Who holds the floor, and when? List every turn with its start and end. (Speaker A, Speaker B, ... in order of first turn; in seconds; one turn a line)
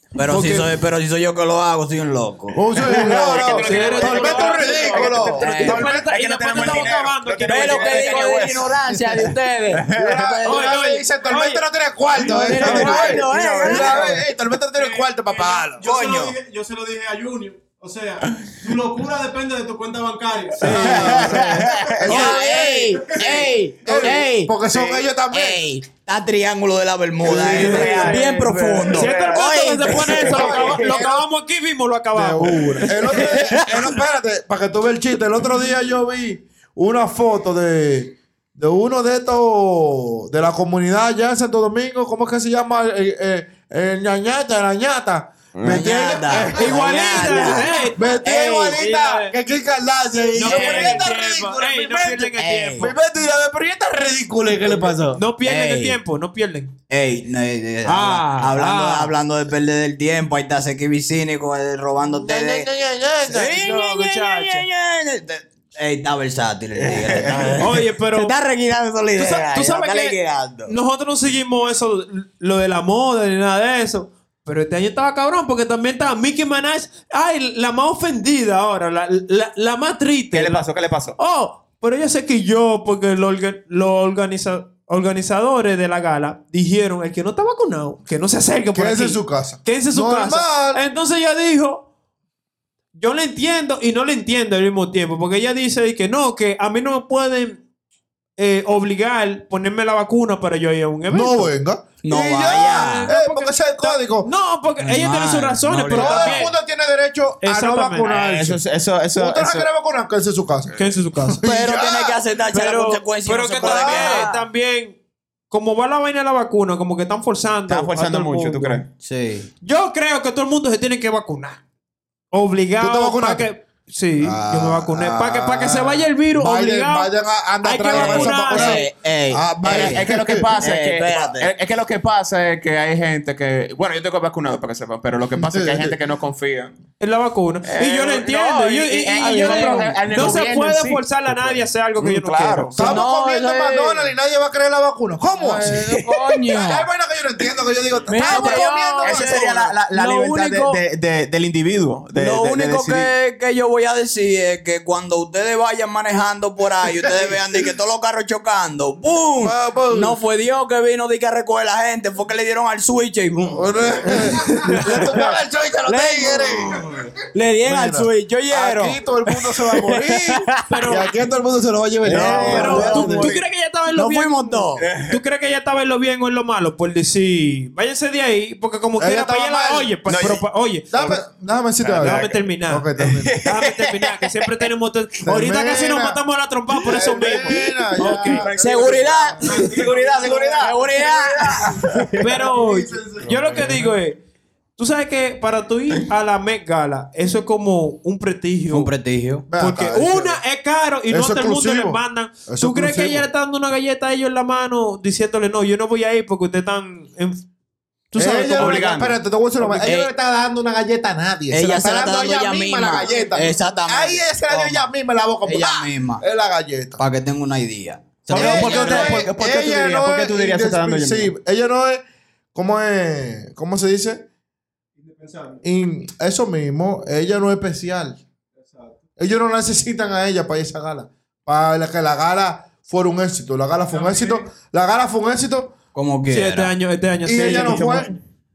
Speaker A: 0.2-2.6
Speaker B: 0.2-0.7
Speaker C: 2.5-6.1
Speaker D: 2.7-10.2
Speaker B: 3.4-8.6
Speaker A: 3.8-5.9
Speaker A: 7.5-10.8
Speaker C: 8.8-9.2
Speaker C: 9.9-15.9
Speaker B: 10.4-11.6
Speaker E: 12.1-14.2
Speaker A: 12.2-14.2
Speaker B: 12.4-13.2
Speaker D: 12.6-14.2
Speaker E: 14.7-21.4
Speaker A: 15.8-16.3
Speaker B: 20.6-21.3
Speaker C: 20.6-23.0
Speaker A: 20.7-31.0
Speaker D: 20.7-22.2
Speaker E: 22.0-23.5
Speaker C: 23.8-25.6
Speaker D: 24.7-25.1
Speaker D: 27.2-30.8
Speaker C: 27.2-29.0
Speaker B: 28.9-33.7
Speaker C: 30.0-31.2
Speaker C: 32.1-55.2
Speaker A: 33.2-33.7
Speaker D: 45.5-46.2
Speaker A: 45.6-48.8
Speaker B: 46.4-49.3
Speaker A: 50.3-51.1
Speaker B: 50.3-52.9
Speaker A: 52.4-52.9
Speaker B: 55.1-56.7
Speaker A: 55.4-56.0
Speaker A: 56.9-62.7
Speaker B: 57.8-59.1
Speaker C: 62.0-63.6
Speaker A: 63.2-70.7
Speaker B: 63.5-64.7
Speaker D: 66.8-67.7
Speaker B: 67.6-68.3
Speaker B: 69.2-91.8
Speaker D: 80.3-81.2
Speaker C: 88.7-90.8
Speaker B: 92.9-97.6
Speaker B: 98.4-101.5
Speaker C: 101.1-104.3
Speaker A: 102.0-103.1
Speaker B: 102.7-106.5
Speaker A: 104.8-106.5
Speaker C: 105.9-108.6
Speaker B: 107.4-108.1
Speaker D: 108.0-109.7
Speaker C: 109.2-112.2
Speaker D: 110.7-110.9
Speaker B: 110.8-111.4
Speaker A: 111.4-114.4
Speaker B: 112.5-115.0
Speaker C: 113.6-114.3
Speaker B: 115.5-118.8
Speaker D: 117.7-118.9
Speaker A: 119.0-119.5
Speaker B: 119.6-121.6
Speaker B: 122.3-128.9
Speaker C: 122.8-123.5
Speaker C: 124.2-130.5
Speaker A: 127.9-130.0
Speaker D: 129.6-136.7
Speaker A: 130.6-131.5
Speaker C: 135.3-136.0
Speaker B: 137.0-142.9
Speaker D: 137.7-142.9
Speaker A: 139.2-139.9
Speaker C: 142.8-145.8
Speaker A: 142.8-144.1
Speaker A: 145.3-146.9
Speaker D: 145.7-146.3
Speaker C: 146.5-149.7
Speaker A: 148.1-150.8
Speaker D: 148.2-153.1
Speaker A: 152.2-163.7
Speaker C: 159.4-160.2
Speaker C: 163.5-166.8
Speaker A: 164.8-171.0
Speaker C: 167.6-173.4
Speaker B: 170.7-171.1
Speaker A: 172.0-173.4
Speaker B: 172.2-180.9
Speaker D: 172.2-172.7
Speaker A: 173.9-174.8
Speaker D: 174.8-175.2
Speaker C: 179.0-179.9
Speaker D: 180.1-181.2
Speaker C: 180.9-183.3
Speaker D: 181.8-182.3
Speaker B: 182.0-182.9
Speaker D: 183.0-184.4
Speaker B: 183.4-188.5
Speaker C: 185.2-186.2
Speaker C: 186.9-189.8
Speaker D: 187.0-192.4
Speaker A: 188.5-189.8
Speaker E: 189.4-191.0
Speaker A: 190.6-191.8
Speaker E: 191.6-193.8
Speaker B: 192.2-194.2
Speaker C: 193.2-193.7
Speaker B: 194.8-198.9
Speaker A: 198.7-199.4
Speaker C: 199.5-200.4
Speaker B: 199.5-207.5
Speaker C: 201.1-203.3
Speaker B: 208.1-208.9
Speaker C: 208.2-217.0
Speaker D: 208.6-209.2
Speaker A: 209.8-210.1
Speaker A: 211.5-214.9
Speaker E: 213.1-213.5
Speaker A: 215.4-216.2
Speaker A: 217.0-219.2
Speaker D: 218.3-221.3
Speaker C: 218.3-222.0
Speaker C: 222.5-224.2
Speaker E: 225.0-225.6
Speaker C: 225.6-228.2
Speaker E: 228.6-229.0
Speaker C: 229.2-235.7
Speaker E: 233.9-234.5
Speaker A: 235.9-236.7
Speaker B: 236.2-238.2
Speaker C: 237.2-238.1